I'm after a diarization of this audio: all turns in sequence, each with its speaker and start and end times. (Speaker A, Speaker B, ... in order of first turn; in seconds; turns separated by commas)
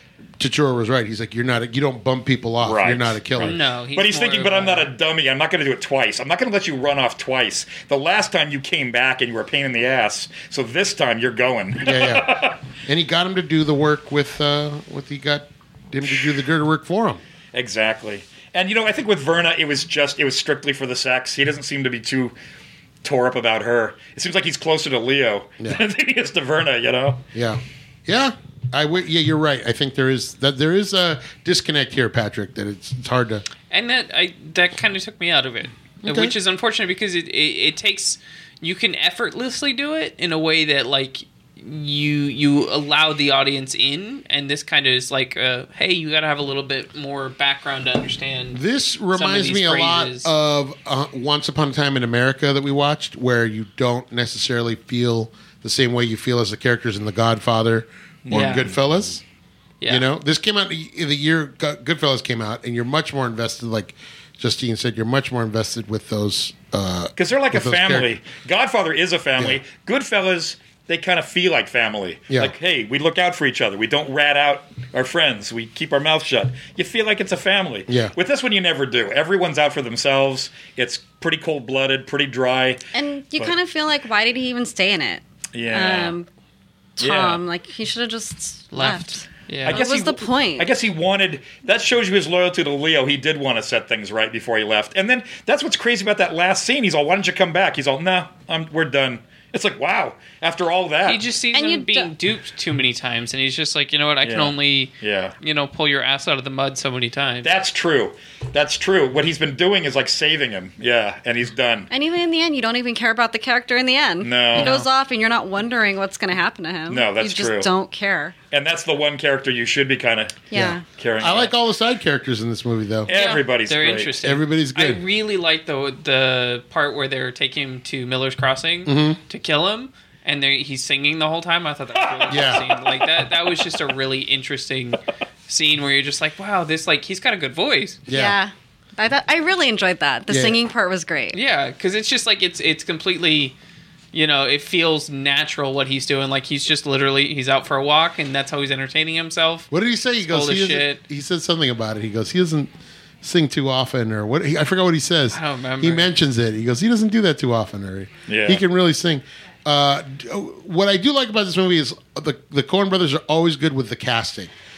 Speaker A: 0.4-3.6, Speaker B: 2.6-12.6, Speaker C: 3.4-4.9, Speaker A: 11.8-17.2, Speaker B: 16.1-16.3, Speaker B: 17.5-22.3, Speaker B: 23.0-27.2, Speaker A: 27.3-33.5, Speaker C: 33.7-48.6, Speaker A: 36.0-36.3, Speaker A: 48.5-59.2, Speaker C: 49.1-50.3, Speaker B: 58.2-58.7, Speaker C: 58.3-58.7, Speaker C: 59.8-60.0, Speaker A: 59.9-68.1, Speaker B: 67.2-82.8, Speaker A: 77.9-78.1, Speaker D: 82.9-86.3, Speaker B: 85.5-86.1, Speaker D: 87.0-90.7, Speaker B: 87.0-87.4, Speaker C: 88.7-89.8, Speaker B: 89.6-101.2, Speaker C: 101.0-107.5, Speaker D: 101.5-102.1, Speaker B: 104.2-105.3, Speaker B: 107.4-111.9, Speaker D: 111.9-118.3, Speaker B: 114.2-114.8, Speaker C: 114.6-114.9, Speaker B: 116.9-117.7, Speaker B: 118.5-121.5, Speaker D: 120.5-120.8, Speaker A: 120.5-123.1, Speaker B: 123.1-124.1, Speaker C: 123.1-138.0, Speaker A: 124.2-125.0, Speaker A: 128.8-129.2, Speaker A: 132.3-132.6, Speaker A: 138.1-138.4, Speaker D: 138.1-141.4, Speaker A: 140.3-140.6, Speaker C: 141.3-143.5, Speaker C: 144.1-149.7, Speaker A: 149.7-152.7, Speaker C: 150.2-151.0, Speaker A: 153.2-164.5, Speaker C: 155.3-156.1, Speaker B: 158.3-158.6